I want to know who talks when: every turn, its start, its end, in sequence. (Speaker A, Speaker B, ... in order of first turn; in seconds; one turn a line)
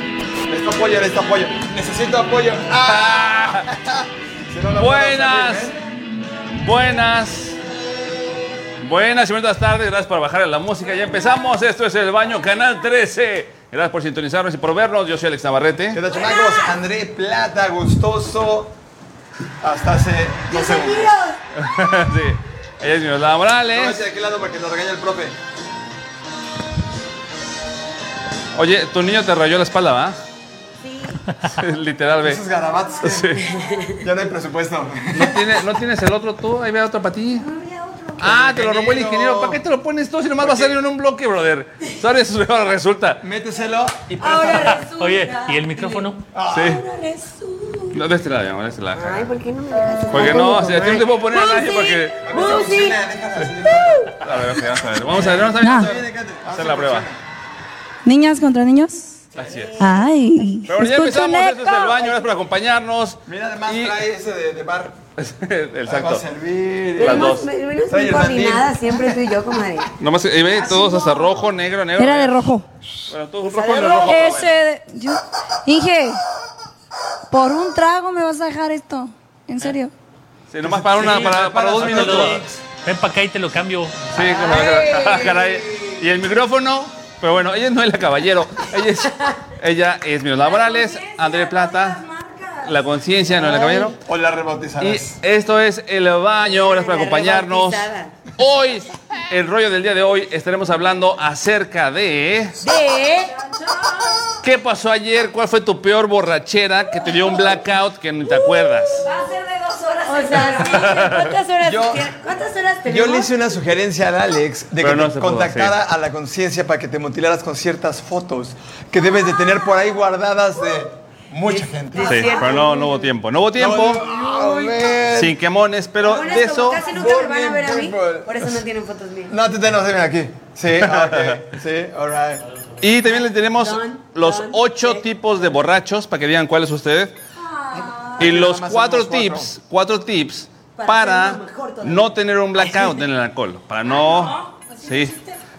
Speaker A: 0.5-5.8
Speaker B: 2.8-3.7
Speaker B: 4.8-5.8
Speaker B: 6.6-7.6
Speaker B: 8.8-16.0
Speaker A: 15.9-18.7
Speaker A: 19.6-21.2
Speaker C: 20.5-21.3
Speaker B: 21.5-24.0
Speaker A: 23.7-25.4
Speaker B: 28.5-30.2
Speaker C: 30.8-31.2
Speaker B: 31.5-32.4
Speaker C: 31.8-32.1
Speaker A: 32.2-35.5
Speaker C: 32.6-34.0
Speaker B: 33.0-33.4
Speaker B: 35.1-37.4
Speaker C: 37.4-38.3
Speaker B: 38.2-43.2
Speaker A: 38.2-39.6
Speaker A: 40.4-40.8
Speaker A: 43.2-44.9
Speaker C: 44.2-46.1
Speaker D: 44.8-46.2
Speaker A: 46.3-46.8
Speaker B: 46.5-46.8
Speaker C: 46.6-48.0
Speaker B: 47.9-49.3
Speaker C: 48.9-53.0
Speaker B: 50.1-52.2
Speaker A: 52.2-54.1
Speaker C: 53.6-54.2
Speaker B: 54.2-57.1
Speaker A: 55.1-57.2
Speaker E: 55.6-55.9
Speaker E: 58.0-59.2
Speaker A: 59.4-59.7
Speaker B: 59.4-59.8
Speaker C: 59.5-60.0
Speaker E: 59.8-62.1
Speaker B: 60.6-64.0
Speaker A: 63.3-65.0
Speaker B: 65.2-66.2
Speaker A: 65.9-69.2
Speaker C: 67.0-69.9
Speaker B: 67.0-67.4
Speaker B: 70.0-72.4
Speaker E: 72.0-72.7
Speaker B: 73.1-74.6
Speaker C: 73.5-74.3
Speaker E: 73.7-76.2
Speaker E: 77.3-79.9
Speaker B: 80.5-82.4
Speaker A: 80.6-82.6
Speaker D: 81.8-84.1
Speaker B: 84.1-92.0
Speaker E: 84.2-85.5
Speaker E: 90.4-92.8
Speaker B: 92.6-93.9
Speaker C: 93.3-93.9
Speaker A: 93.5-95.2
Speaker B: 94.8-102.6
Speaker C: 96.4-98.1
Speaker C: 102.6-103.3
Speaker E: 103.1-104.2
Speaker B: 104.4-109.0
Speaker E: 109.0-111.3
Speaker C: 109.9-113.3
Speaker B: 110.7-111.3
Speaker A: 111.6-112.1
Speaker A: 112.8-122.7
Speaker B: 114.8-115.8
Speaker C: 121.4-123.0
Speaker B: 122.0-124.1
Speaker A: 123.6-125.3
Speaker B: 125.2-126.8
Speaker C: 126.0-129.3
Speaker A: 126.6-128.6
Speaker A: 129.3-132.4
Speaker B: 130.8-131.4
Speaker B: 132.8-137.1
Speaker C: 133.6-135.0
Speaker E: 137.4-138.2
Speaker A: 138.1-139.5
Speaker B: 138.2-145.1
Speaker C: 140.8-143.0
Speaker E: 143.9-145.4